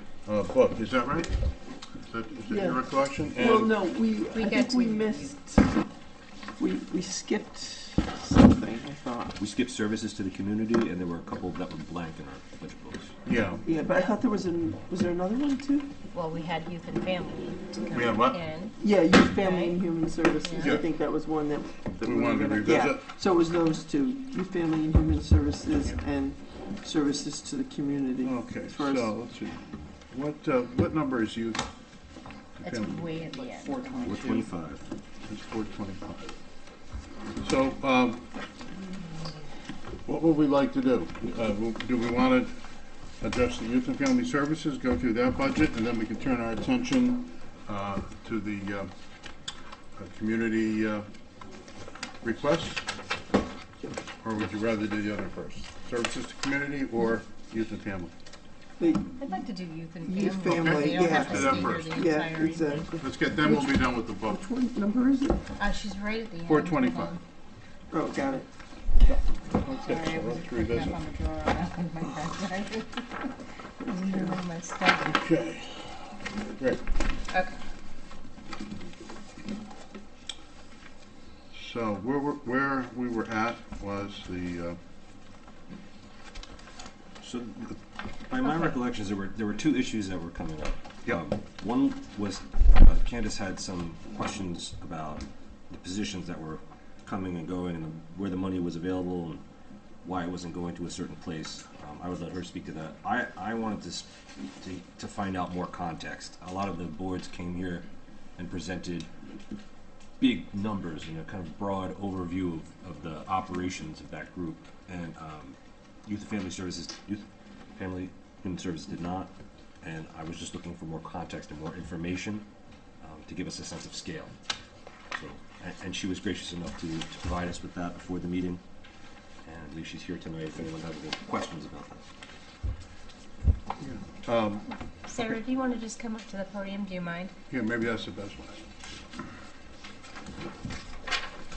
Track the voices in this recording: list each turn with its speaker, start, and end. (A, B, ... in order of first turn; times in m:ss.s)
0:00.2-0:01.4 A
0:02.1-0:03.7 A
0:02.5-0:05.8 B
0:04.3-0:05.4 C
0:06.6-0:09.4 B
0:09.4-0:13.1 D
0:13.2-0:13.6 A
0:13.6-0:15.9 B
0:16.1-0:18.8 C
0:17.9-0:18.4 A
0:18.8-0:29.1 B
0:19.3-0:19.8 C
0:20.4-0:20.8 C
0:20.6-0:20.8 A
0:22.0-0:23.1 A
0:28.2-0:31.6 A
0:32.6-0:34.5 A
0:32.6-0:34.2 C
0:34.0-0:34.9 D
0:35.3-0:36.4 A
0:37.4-0:38.2 A
0:40.0-0:42.5 A
0:43.2-0:48.9 A
0:50.0-0:51.0 A
0:52.2-0:52.9 A
0:54.2-0:58.1 A
0:58.8-0:59.4 B
0:59.0-1:03.0 C
1:00.0-1:05.4 B
1:00.5-1:02.1 A
1:03.0-1:04.4 A
1:05.6-1:07.2 C
1:06.4-1:07.2 A
1:07.9-1:08.5 B
1:09.5-1:11.0 A
1:09.6-1:15.2 C
1:15.1-1:16.8 A
1:17.3-1:17.6 C
1:21.5-1:24.8 A
1:27.2-1:39.4 D
1:40.0-1:44.1 D
1:44.6-1:47.8 D
1:48.4-1:49.1 D
1:50.2-2:02.4 D
2:03.0-2:04.3 D
2:05.1-2:08.6 D
2:09.4-2:12.0 D
2:13.8-2:14.7 A
2:15.0-2:17.3 C
2:17.5-2:18.6 A